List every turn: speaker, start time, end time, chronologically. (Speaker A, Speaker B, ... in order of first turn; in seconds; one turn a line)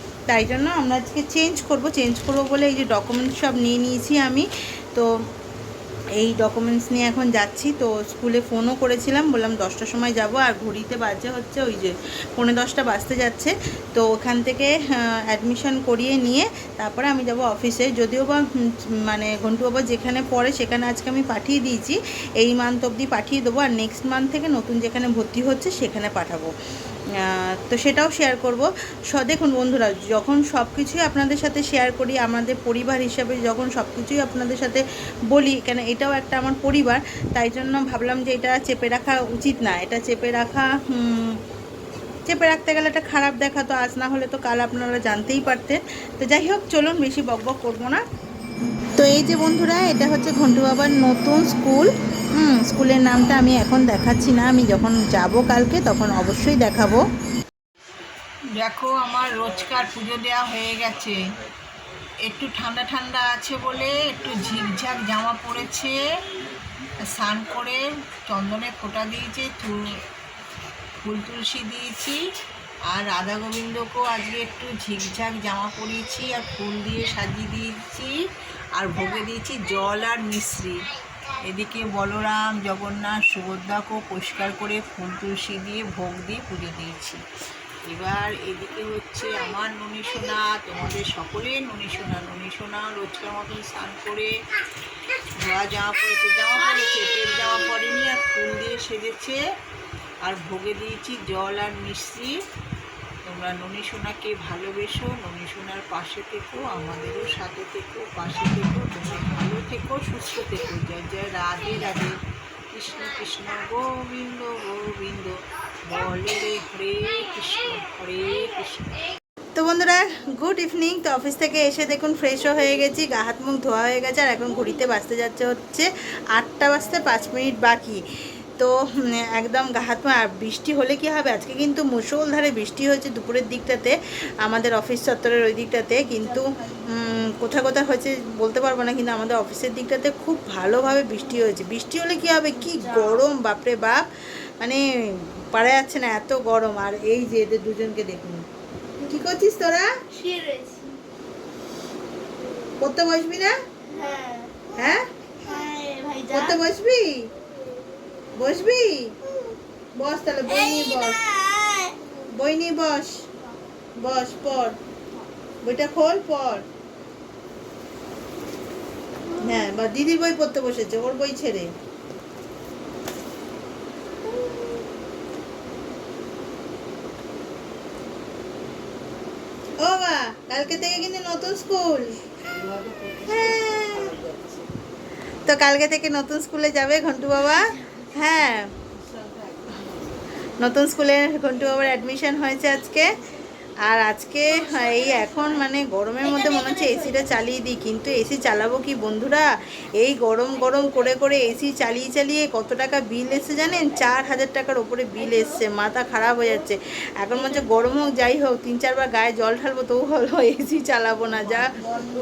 Speaker A: 0.3-5.1
Speaker A: 6.2-18.4
Speaker A: 19.1-26.5
Speaker A: 27.2-41.3
Speaker A: 42.3-48.0
Speaker A: 49.0-57.0
Speaker B: 58.6-61.2
Speaker B: 62.2-66.0
Speaker B: 67.0-69.8
Speaker B: 71.0-72.2
Speaker B: 72.9-78.2
Speaker B: 78.8-80.8
Speaker B: 81.5-87.2
Speaker B: 87.9-94.3
Speaker B: 95.4-99.4
Speaker B: 100.2-102.3
Speaker B: 103.3-112.2
Speaker B: 112.7-115.3
Speaker B: 115.9-118.9
Speaker A: 119.6-128.0
Speaker A: 129.3-144.1
Speaker A: 145.5-148.4
Speaker A: 149.1-149.9
Speaker C: 150.1-151.0
Speaker A: 152.8-153.5
Speaker C: 153.9-154.6
Speaker A: 154.7-155.0
Speaker C: 155.4-156.5
Speaker A: 156.3-157.2
Speaker A: 158.4-159.1
Speaker A: 160.0-161.3
Speaker C: 161.1-162.0
Speaker A: 162.4-163.3
Speaker A: 164.0-164.8
Speaker A: 165.6-166.6
Speaker A: 169.4-171.7
Speaker A: 179.8-182.2
Speaker B: 182.5-184.7
Speaker A: 183.3-184.1
Speaker A: 185.4-188.7
Speaker B: 189.0-190.2
Speaker A: 190.6-193.1
Speaker A: 193.9-211.8